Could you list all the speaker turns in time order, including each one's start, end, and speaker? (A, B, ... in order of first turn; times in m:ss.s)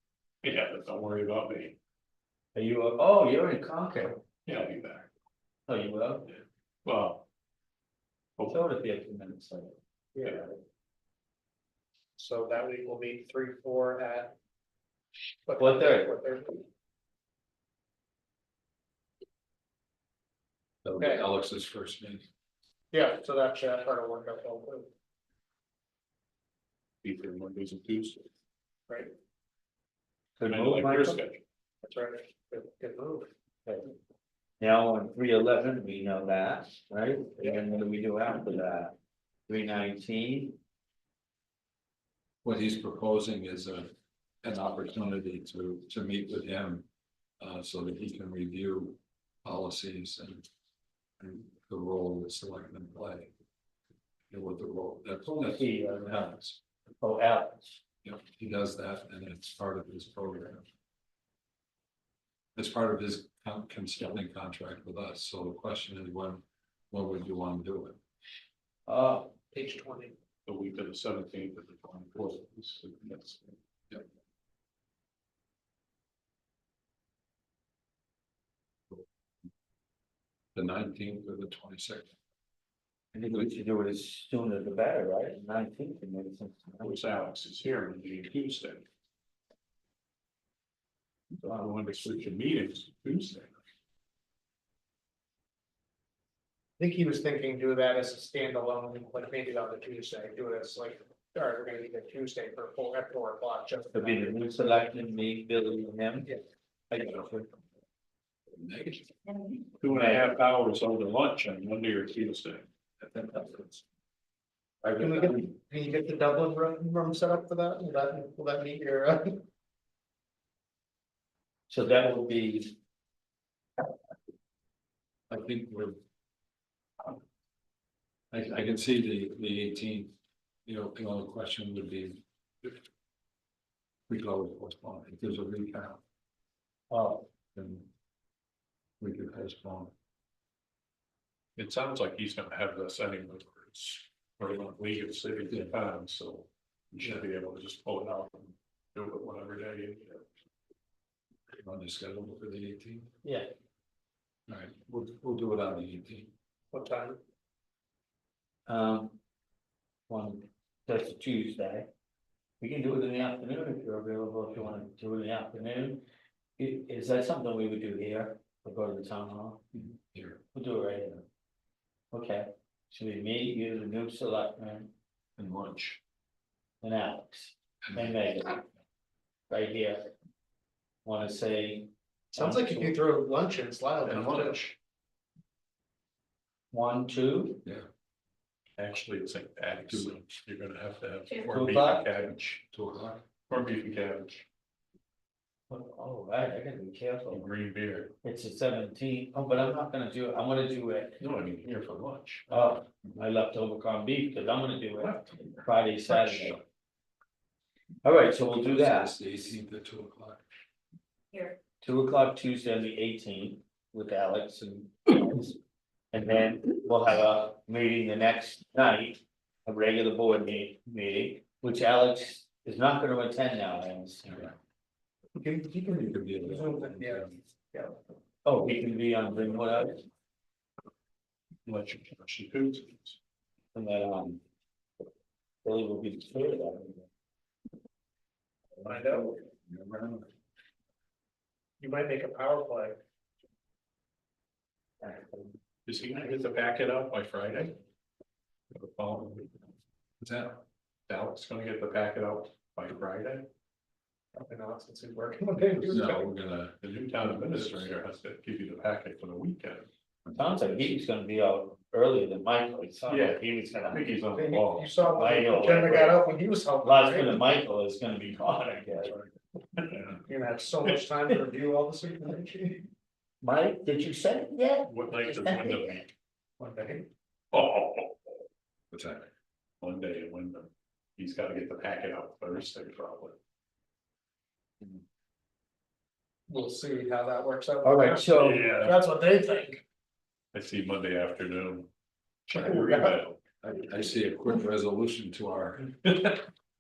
0:00.4-0:01.8 A
0:02.6-0:04.2 B
0:04.5-0:05.1 A
0:05.7-0:06.3 B
0:06.3-0:07.3 A
0:08.5-0:10.5 B
0:10.2-0:10.4 C
0:12.2-0:14.4 C
0:15.5-0:16.6 C
0:15.6-0:16.1 B
0:20.8-0:22.3 D
0:21.0-0:21.2 C
0:22.9-0:24.9 C
0:27.0-0:28.3 A
0:30.4-0:31.2 B
0:30.5-0:31.4 A
0:31.8-0:33.3 C
0:33.7-0:33.9 B
0:34.6-0:39.0 B
0:39.5-0:40.6 B
0:42.4-0:43.9 D
0:44.4-0:46.9 D
0:47.4-0:50.5 D
0:51.2-0:53.3 D
0:54.3-0:56.6 D
0:55.3-0:57.8 B
0:58.0-1:00.7 D
1:02.6-1:08.0 D
1:08.9-1:09.3 B
1:09.5-1:10.2 C
1:10.5-1:13.6 A
1:20.5-1:22.1 D
1:23.1-1:27.0 B
1:26.8-1:28.9 A
1:31.4-1:33.6 A
1:31.4-1:31.7 B
1:36.8-1:44.4 C
1:43.9-1:46.3 B
1:46.9-1:47.5 B
1:48.5-1:49.2 D
1:49.8-1:52.7 A
1:49.9-1:50.3 B
1:53.0-1:53.8 D
1:54.8-1:55.5 D
1:55.0-1:59.4 C
2:01.7-2:02.8 B
2:05.3-2:06.0 D
2:08.3-2:10.1 D
2:10.7-2:12.8 D
2:14.1-2:16.0 D
2:16.9-2:17.3 B
2:17.6-2:17.9 D
2:19.0-2:19.9 D
2:21.6-2:30.2 A
2:31.5-2:33.1 D
2:33.2-2:33.5 B
2:34.5-2:36.3 D
2:36.7-2:37.2 C
2:38.7-2:39.2 B
2:40.1-2:41.9 B
2:42.6-2:46.0 B
2:46.6-2:49.6 B
2:49.7-2:50.4 D
2:50.5-2:51.2 B
2:52.1-2:54.9 B
2:55.4-2:56.0 D
2:56.8-2:58.6 B
2:57.8-2:58.2 D
2:59.5-3:00.0 B
3:01.0-3:03.0 B
3:02.4-3:04.6 C
3:04.0-3:04.8 A
3:06.7-3:07.6 B
3:08.8-3:12.6 A
3:11.5-3:12.1 B
3:12.7-3:13.2 D
3:13.5-3:14.5 A
3:15.7-3:17.5 B
3:17.3-3:18.2 A
3:18.2-3:21.2 B
3:21.2-3:22.8 A
3:22.5-3:26.6 B
3:25.0-3:25.6 A
3:28.0-3:29.1 B
3:28.5-3:30.4 D
3:31.8-3:35.6 B
3:36.1-3:44.5 B
3:44.3-3:44.6 D
3:45.4-3:48.0 C
3:45.9-3:47.4 D
3:48.4-3:50.0 B
3:51.7-3:53.2 A
3:53.7-3:54.4 B
3:55.6-3:57.1 B
3:58.8-4:00.3 D
3:58.8-3:59.3 C
4:01.8-4:03.0 C
4:05.0-4:05.5 B
4:05.9-4:07.8 A
4:08.7-4:09.6 A
4:10.2-4:10.6 D
4:11.1-4:13.5 A
4:14.4-4:16.3 C
4:15.9-4:17.9 D
4:16.8-4:19.9 A
4:20.3-4:20.9 D
4:20.3-4:24.1 B
4:23.1-4:24.9 A
4:24.3-4:27.4 C
4:25.1-4:26.2 B
4:26.8-4:29.2 B
4:29.8-4:30.2 A
4:30.3-4:32.9 C
4:33.4-4:36.1 B
4:34.9-4:36.1 A
4:36.6-4:37.1 C
4:37.5-4:38.4 A
4:38.9-4:39.3 D
4:39.8-4:43.4 A
4:46.5-4:49.8 C
4:47.8-4:48.9 B
4:50.5-4:51.9 A
4:52.5-4:53.4 A
4:52.5-4:53.2 C
4:53.6-4:56.2 D